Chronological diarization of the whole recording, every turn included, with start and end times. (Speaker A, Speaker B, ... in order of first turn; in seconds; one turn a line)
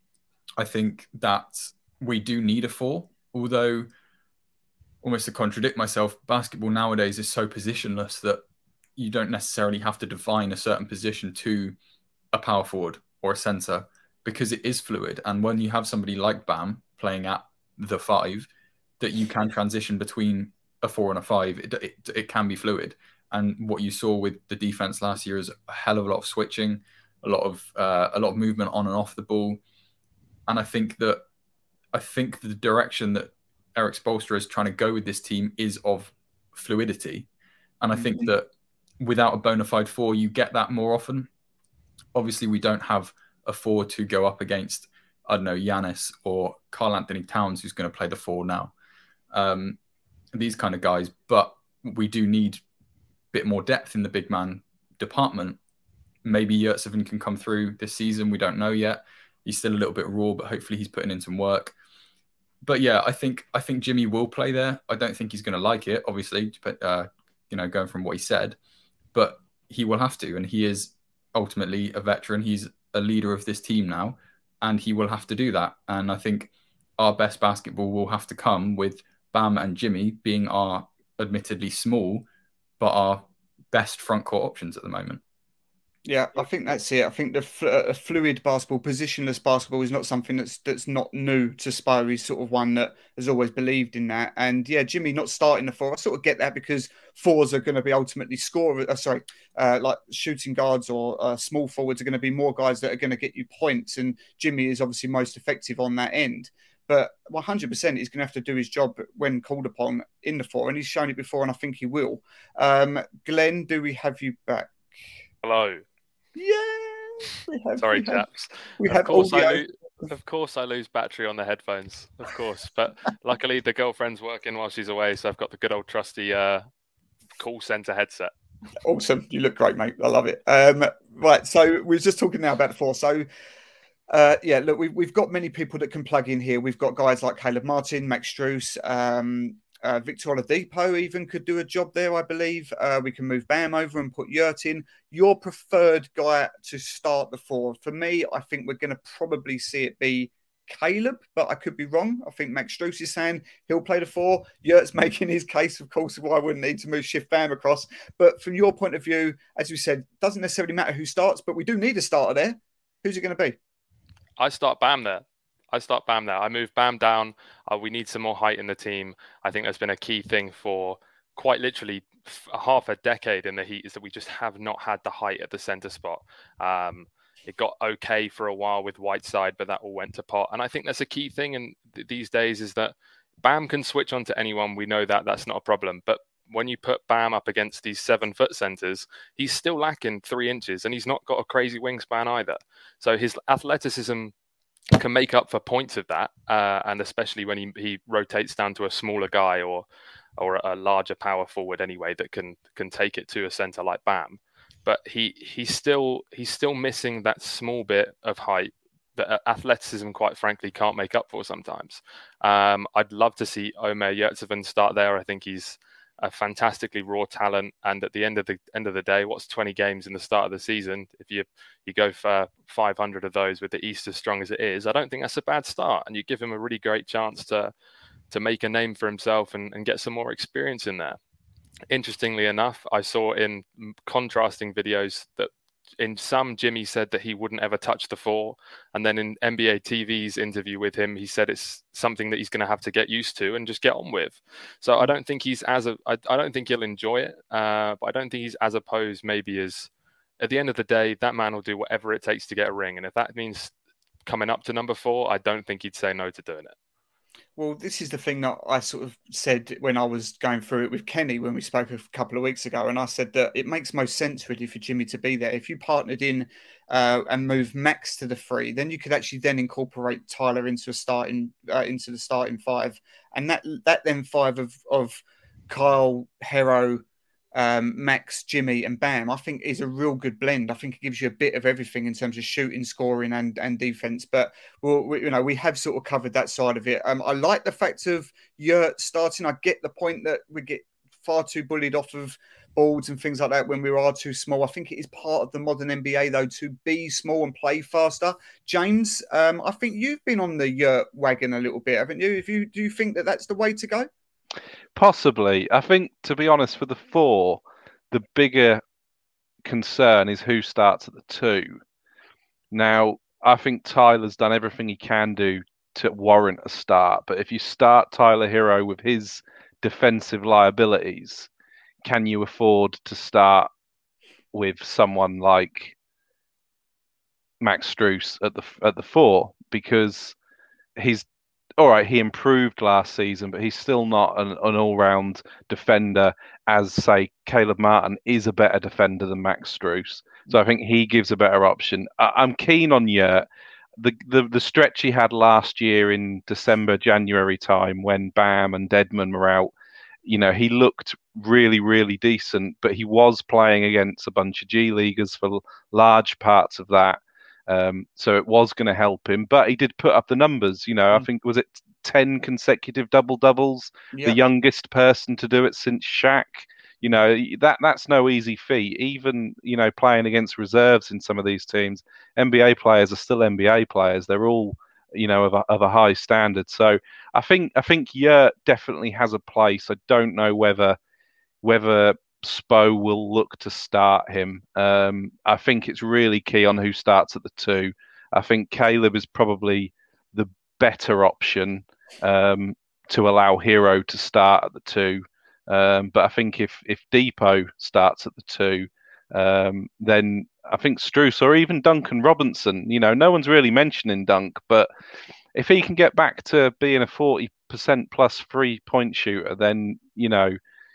Speaker A: 0.6-3.9
Speaker A: 5.0-8.4
Speaker A: 9.0-11.8
Speaker A: 12.3-18.5
Speaker A: 19.0-29.6
Speaker A: 30.5-31.2
Speaker A: 31.9-37.3
Speaker A: 37.8-38.5
Speaker B: 38.0-38.3
Speaker A: 39.0-41.3
Speaker A: 42.1-48.7
Speaker A: 49.3-49.8
Speaker A: 50.3-52.6
Speaker A: 53.3-55.6
Speaker A: 56.2-61.7
Speaker A: 62.6-68.6
Speaker A: 69.1-82.2
Speaker A: 82.8-85.2
Speaker B: 86.0-114.7
Speaker C: 115.4-115.8
Speaker B: 116.3-118.2
Speaker C: 117.8-126.6
Speaker B: 118.8-119.6
Speaker C: 127.4-128.3
Speaker B: 128.8-133.2
Speaker B: 134.1-163.6
Speaker C: 164.4-194.3
Speaker C: 194.9-199.8
Speaker C: 200.4-227.7
Speaker C: 228.3-231.2
Speaker C: 231.9-249.9
Speaker C: 250.4-253.7
Speaker C: 254.2-256.7
Speaker B: 257.6-277.0
Speaker B: 277.5-304.1
Speaker D: 304.9-308.8
Speaker D: 309.6-311.8
Speaker D: 312.7-321.5
Speaker D: 322.0-323.7
Speaker D: 324.5-325.9
Speaker D: 327.6-330.3
Speaker D: 331.0-331.2
Speaker D: 331.8-343.4
Speaker D: 344.0-349.7
Speaker D: 350.2-381.0
Speaker B: 364.1-364.4
Speaker D: 381.6-404.9
Speaker D: 405.5-410.6